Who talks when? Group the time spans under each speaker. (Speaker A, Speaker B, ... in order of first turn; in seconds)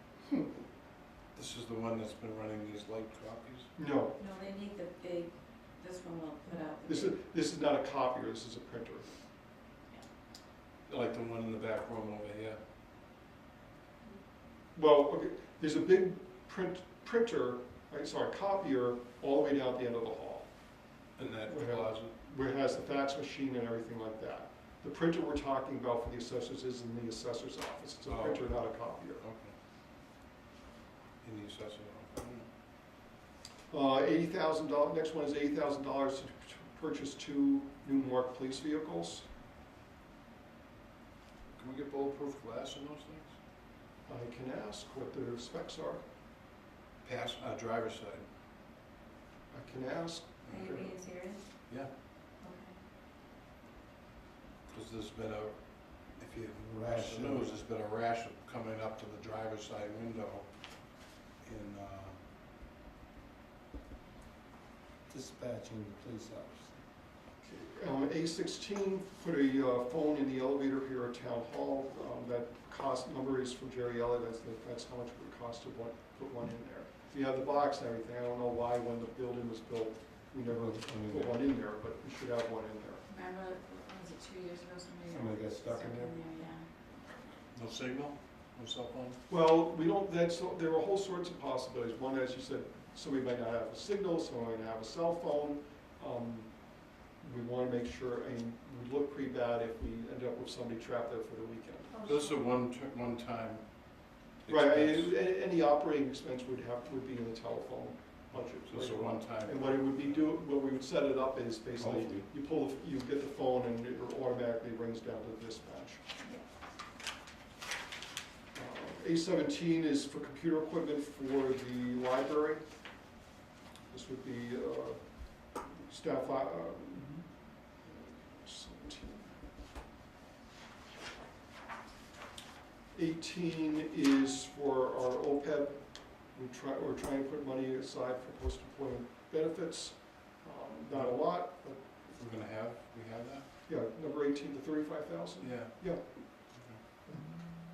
Speaker A: 1.3-3.7, 10.9-12.6, 21.2-22.1, 28.1-28.4, 29.2-29.5, 31.2-32.5, 41.5-43.3, 47.0-48.3, 54.7-55.5, 56.2-60.5, 61.4-62.1, 87.5-89.2, 102.0-103.6, 104.4-105.1, 108.6-110.3, 142.1-143.4, 145.4-145.7, 146.5-146.8
Speaker B: 3.8-4.2, 6.8-9.1, 14.7-20.5, 21.4-29.2, 33.7-39.3, 44.1-46.0, 49.5-50.9, 67.4-83.0, 89.3-96.5, 97.2-102.0, 104.5-116.0, 118.5-122.6, 123.9-125.0, 125.6-127.2, 127.8-129.4, 132.9-135.8, 136.3-141.8, 143.7-146.0
Speaker C: 4.2-7.1, 50.5-51.4, 52.4-52.7, 83.1-86.7
Speaker D: 56.6-57.5, 65.1-66.8, 80.5-81.3, 85.1-86.1, 111.8-112.3